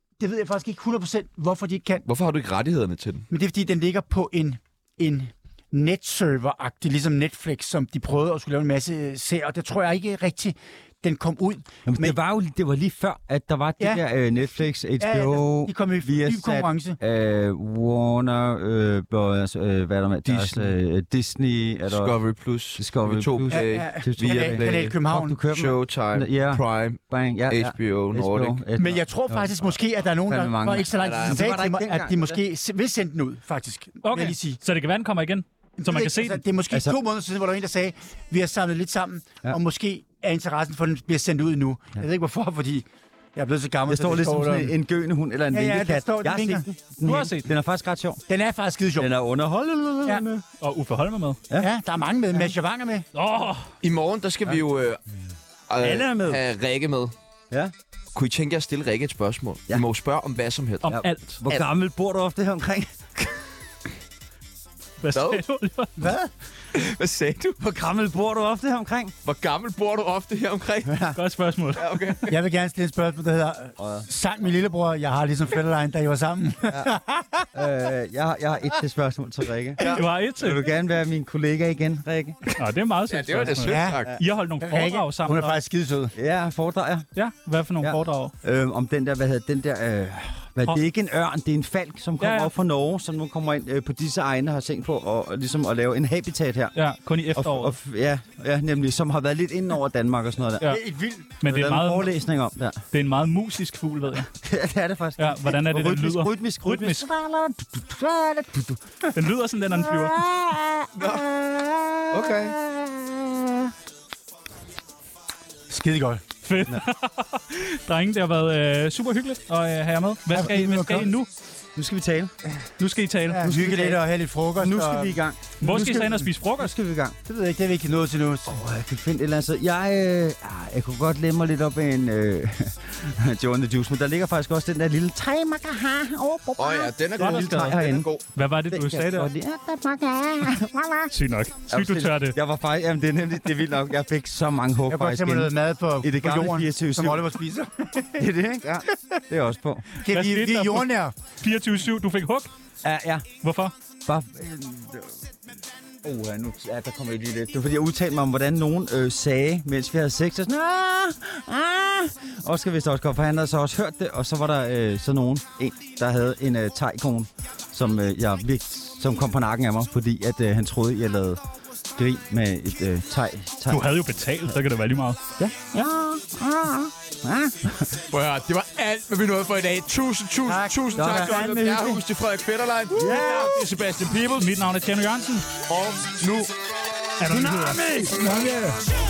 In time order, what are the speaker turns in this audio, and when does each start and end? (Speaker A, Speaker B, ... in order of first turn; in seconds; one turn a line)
Speaker A: 0.2-2.0
Speaker B: 2.1-3.3
Speaker A: 3.3-12.2
Speaker C: 11.9-22.2
Speaker A: 15.0-17.0
Speaker B: 20.2-20.7
Speaker B: 21.9-28.6
Speaker C: 22.8-32.4
Speaker A: 23.5-25.4
Speaker A: 28.8-34.6
Speaker B: 30.9-31.4
Speaker D: 34.0-36.4
Speaker A: 35.8-44.7
Speaker C: 36.7-37.0
Speaker C: 43.9-48.2
Speaker A: 45.5-46.7
Speaker D: 47.0-47.5
Speaker A: 48.3-49.1
Speaker C: 49.0-50.5
Speaker D: 50.6-51.4
Speaker A: 51.6-53.1
Speaker D: 53.1-53.7
Speaker B: 53.8-55.0
Speaker B: 55.7-57.1
Speaker C: 55.8-56.4
Speaker B: 58.1-60.9
Speaker D: 60.8-61.4
Speaker C: 60.9-63.3
Speaker D: 65.0-66.0
Speaker B: 65.1-65.4
Speaker A: 66.0-66.3
Speaker B: 66.7-67.6
Speaker C: 67.6-69.1
Speaker B: 69.2-71.0
Speaker C: 70.9-71.2
Speaker D: 71.1-71.8
Speaker B: 71.7-72.4
Speaker A: 72.3-77.5
Speaker C: 73.8-74.1
Speaker C: 76.7-77.0
Speaker C: 77.5-82.4
Speaker D: 79.9-80.6
Speaker D: 82.6-85.6
Speaker B: 83.1-84.1
Speaker A: 83.7-84.0
Speaker A: 84.6-86.1
Speaker C: 86.2-87.1
Speaker D: 87.1-88.3
Speaker C: 87.8-96.8
Speaker D: 92.2-92.5
Speaker D: 96.7-97.8
Speaker C: 97.3-100.8
Speaker A: 100.6-101.3
Speaker D: 101.4-102.1
Speaker C: 101.4-102.8
Speaker D: 102.9-104.3
Speaker C: 104.3-108.8
Speaker D: 105.2-107.1
Speaker D: 109.1-110.2
Speaker C: 109.8-113.7
Speaker B: 111.0-111.3
Speaker B: 112.1-112.6
Speaker A: 115.7-116.2
Speaker D: 116.4-121.3
Speaker A: 120.3-121.1
Speaker C: 121.7-122.3
Speaker D: 122.8-123.5
Speaker A: 123.3-125.2
Speaker C: 123.3-124.0
Speaker C: 124.6-127.2
Speaker D: 125.6-126.7
Speaker A: 127.3-128.6
Speaker C: 128.5-138.1
Speaker B: 136.6-138.2
Speaker D: 137.2-139.3
Speaker C: 138.7-141.1
Speaker D: 141.1-142.4
Speaker C: 141.7-147.4
Speaker A: 144.9-148.2
Speaker C: 148.2-149.8
Speaker A: 150.0-151.1
Speaker D: 150.1-150.9
Speaker D: 151.4-152.5
Speaker C: 152.8-153.3
Speaker D: 153.4-153.7
Speaker C: 154.1-155.3
Speaker C: 156.0-171.4
Speaker C: 171.9-173.9
Speaker D: 173.7-175.2
Speaker C: 175.4-178.0
Speaker B: 178.1-184.5
Speaker A: 180.4-181.4
Speaker C: 180.9-182.0
Speaker C: 182.9-183.6
Speaker D: 184.4-185.6
Speaker B: 185.7-186.6
Speaker D: 187.2-187.8
Speaker C: 187.2-188.2
Speaker A: 188.1-188.8